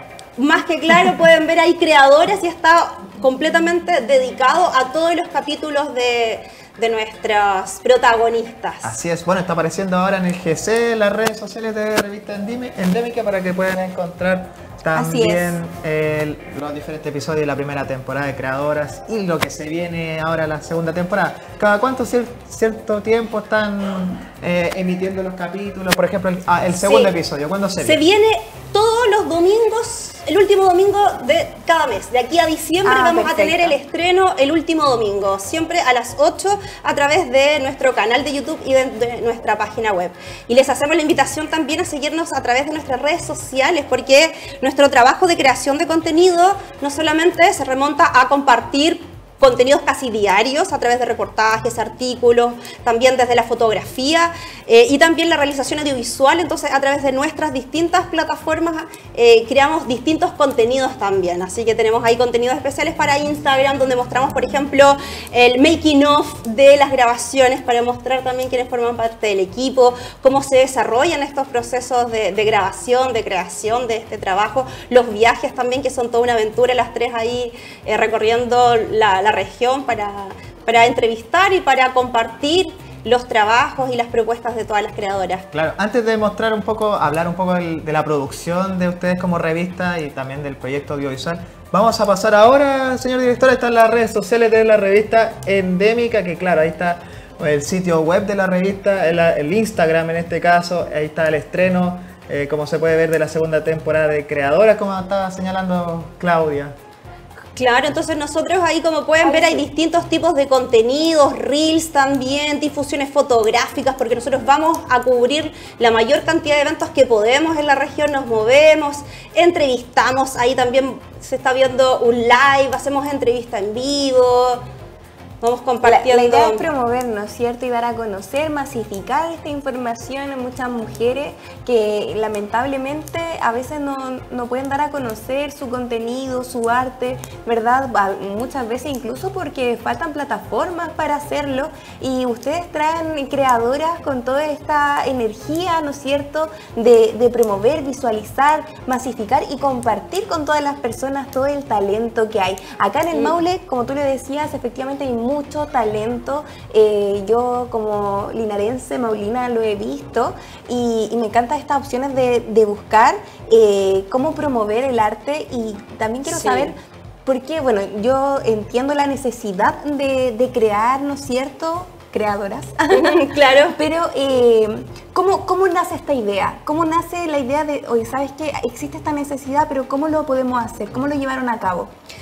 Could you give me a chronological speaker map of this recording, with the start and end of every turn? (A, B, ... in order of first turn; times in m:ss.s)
0:00.4-0:08.9 A
0:08.8-0:28.0 B
0:14.9-0:15.6 C
0:26.8-0:27.1 A
0:27.8-1:25.5 A
0:32.8-0:33.7 C
1:25.5-1:46.8 B
1:47.6-2:04.6 A
1:49.2-1:49.6 C
2:05.4-2:06.6 A
2:05.8-3:01.9 C
2:46.3-2:46.7 A
2:52.9-2:53.8 A